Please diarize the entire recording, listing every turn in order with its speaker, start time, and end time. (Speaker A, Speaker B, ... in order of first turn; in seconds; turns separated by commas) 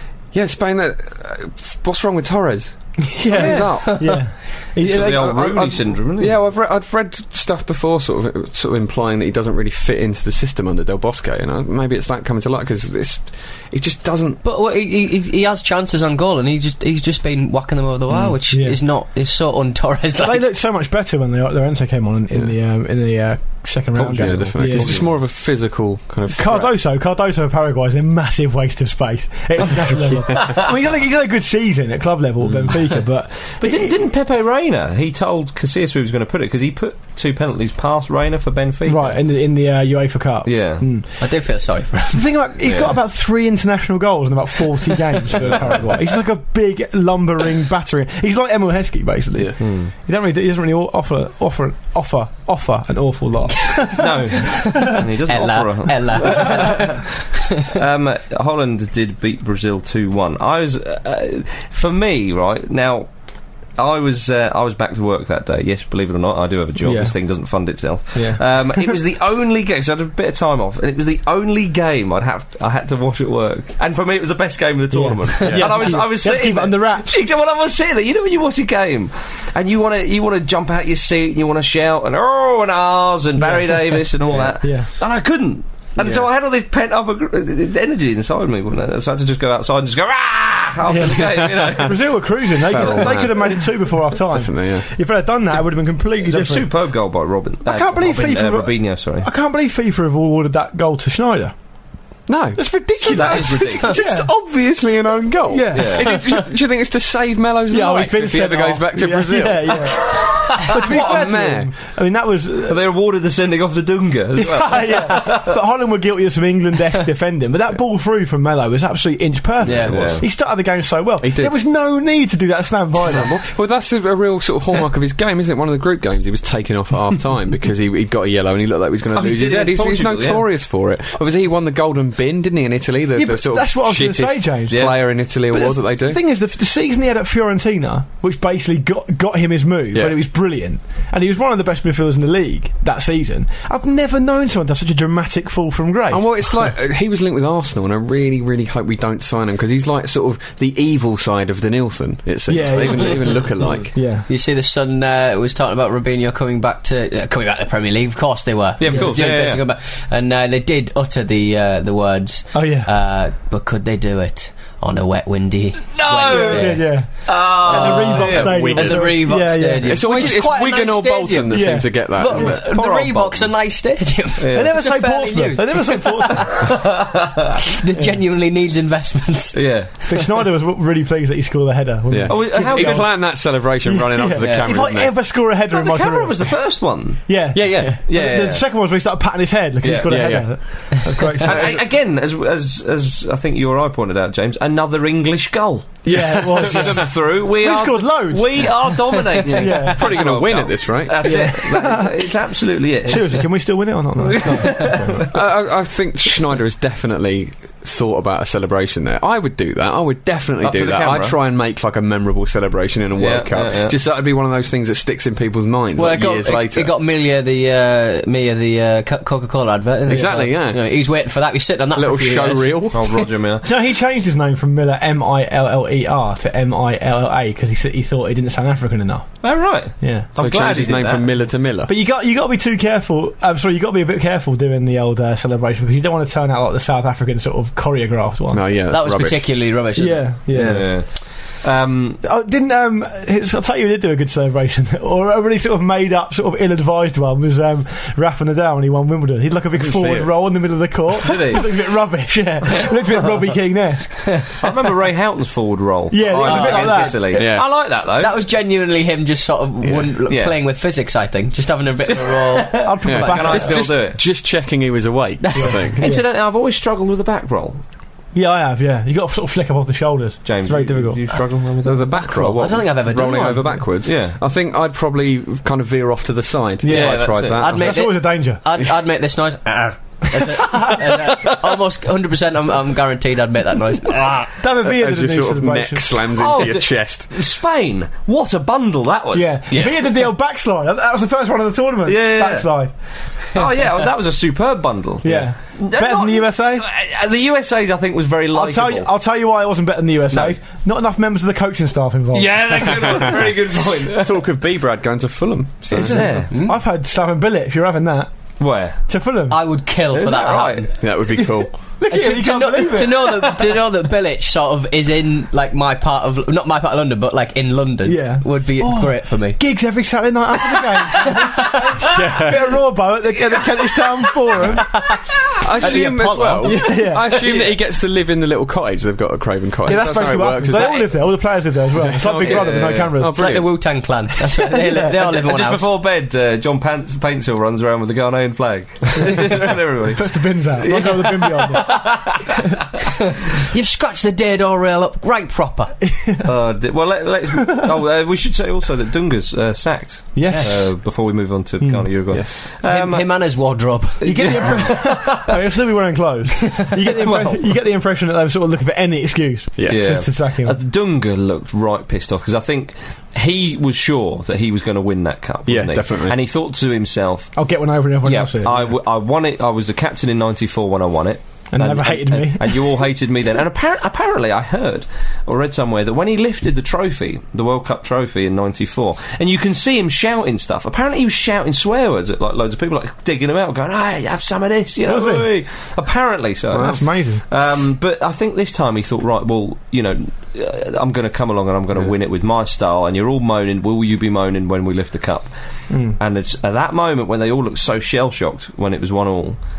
Speaker A: 0.3-4.3, Speaker B: 3.1-5.9, Speaker C: 3.3-3.8, Speaker D: 3.8-4.2, Speaker C: 4.8-6.4, Speaker A: 4.8-14.4, Speaker D: 14.4-20.4, Speaker B: 18.5-18.8, Speaker B: 20.2-25.1, Speaker A: 23.9-26.7, Speaker C: 24.6-25.1, Speaker B: 26.3-33.9, Speaker A: 30.1-30.4, Speaker C: 32.4-39.2, Speaker B: 38.9-41.3, Speaker C: 40.4-40.8, Speaker D: 41.2-42.3, Speaker B: 42.1-54.1, Speaker C: 42.6-42.9, Speaker C: 49.6-49.9, Speaker C: 54.0-57.0, Speaker D: 54.5-57.0, Speaker C: 57.6-63.1, Speaker C: 63.8-93.6, Speaker B: 66.8-67.1, Speaker B: 68.1-68.9, Speaker B: 74.9-77.2, Speaker A: 75.4-75.9, Speaker B: 83.4-84.9, Speaker A: 86.0-86.2, Speaker B: 90.8-96.7, Speaker A: 91.4-91.9, Speaker A: 92.6-93.6, Speaker A: 94.3-94.9, Speaker C: 96.2-99.3, Speaker B: 97.6-101.5, Speaker A: 102.3-111.7, Speaker B: 102.5-104.3, Speaker C: 103.0-104.0, Speaker B: 105.5-106.1, Speaker C: 105.7-106.2, Speaker B: 107.7-112.8, Speaker C: 112.7-115.5, Speaker B: 114.3-123.3, Speaker D: 119.6-120.0, Speaker C: 119.7-120.2, Speaker A: 119.9-120.2, Speaker A: 121.2-121.5, Speaker A: 123.1-136.2, Speaker C: 129.1-130.4, Speaker B: 133.1-146.7, Speaker C: 134.7-135.0, Speaker A: 146.1-153.9, Speaker B: 152.5-154.2, Speaker D: 154.3-176.8, Speaker C: 158.8-159.6, Speaker B: 162.5-162.9, Speaker C: 165.9-168.8, Speaker B: 166.2-170.0, Speaker A: 168.3-172.6, Speaker B: 171.5-172.5, Speaker C: 172.3-173.5, Speaker C: 174.4-174.8, Speaker B: 174.5-176.7, Speaker C: 176.6-177.2, Speaker D: 177.7-180.2, Speaker C: 179.5-180.2, Speaker B: 180.1-191.8, Speaker A: 182.1-185.1, Speaker C: 182.3-183.1, Speaker D: 184.4-184.7, Speaker C: 185.7-188.7, Speaker A: 187.5-188.0, Speaker C: 189.8-190.7, Speaker A: 190.1-191.8, Speaker C: 191.4-203.5, Speaker A: 196.0-197.1, Speaker B: 196.1-200.3, Speaker A: 199.4-201.4, Speaker B: 201.2-202.3, Speaker B: 203.0-205.3, Speaker C: 204.2-205.3, Speaker A: 205.3-216.9, Speaker C: 210.6-211.4, Speaker C: 213.2-214.0, Speaker D: 215.9-223.2, Speaker A: 220.1-220.8, Speaker A: 221.9-223.2, Speaker C: 222.9-223.7, Speaker B: 223.6-230.3, Speaker C: 229.4-231.4, Speaker A: 230.3-231.9, Speaker B: 231.8-238.8, Speaker A: 238.5-239.4, Speaker D: 238.9-240.3, Speaker B: 239.9-241.0, Speaker C: 240.5-242.2, Speaker B: 242.2-254.5, Speaker A: 249.8-250.3, Speaker C: 251.2-251.8, Speaker C: 254.6-258.4, Speaker B: 256.1-257.3, Speaker D: 256.4-262.9, Speaker A: 257.3-257.6, Speaker A: 259.8-260.1, Speaker C: 260.3-260.6, Speaker C: 262.3-264.2, Speaker B: 262.8-263.9, Speaker A: 263.0-266.0, Speaker D: 265.4-265.9, Speaker B: 265.6-266.2, Speaker C: 265.9-267.8, Speaker B: 268.3-271.4, Speaker C: 270.4-272.8, Speaker A: 271.8-278.0, Speaker D: 272.5-273.8, Speaker C: 274.0-274.4, Speaker B: 276.8-278.6, Speaker C: 276.9-277.8, Speaker D: 277.6-284.5, Speaker B: 284.6-286.3, Speaker A: 284.8-287.3, Speaker C: 286.3-289.6, Speaker B: 289.3-292.9, Speaker D: 289.7-290.0, Speaker C: 292.1-299.1, Speaker B: 295.2-296.9, Speaker B: 298.5-303.2, Speaker C: 300.3-300.6, Speaker C: 302.3-304.4, Speaker A: 302.8-306.4, Speaker C: 305.9-306.5, Speaker B: 305.9-308.5, Speaker D: 306.5-306.8, Speaker C: 308.6-309.0, Speaker B: 309.1-309.6, Speaker D: 309.5-310.9, Speaker C: 310.1-310.9, Speaker A: 311.0-311.7, Speaker B: 311.3-313.8, Speaker D: 312.1-319.6, Speaker B: 318.0-325.0, Speaker D: 321.2-322.1, Speaker A: 322.1-322.8, Speaker D: 324.6-327.0, Speaker A: 325.6-331.1, Speaker B: 326.6-327.7, Speaker B: 329.8-333.4, Speaker C: 330.6-331.0, Speaker A: 332.0-333.8, Speaker C: 332.1-333.2, Speaker D: 333.3-335.9, Speaker B: 334.7-335.1, Speaker C: 335.2-342.4, Speaker B: 340.1-342.5, Speaker D: 343.7-346.0, Speaker B: 346.1-346.5, Speaker C: 346.4-353.5, Speaker B: 350.3-351.1, Speaker D: 350.5-350.8, Speaker B: 351.8-352.1, Speaker A: 352.3-352.6, Speaker D: 352.8-354.6, Speaker C: 354.2-355.5, Speaker B: 354.2-360.8, Speaker C: 357.1-357.7, Speaker A: 359.8-360.0, Speaker C: 359.9-367.7, Speaker A: 365.6-366.4, Speaker B: 367.6-368.9, Speaker C: 368.2-399.6, Speaker B: 371.7-372.9, Speaker B: 385.0-385.5, Speaker B: 386.7-387.4, Speaker B: 395.9-396.2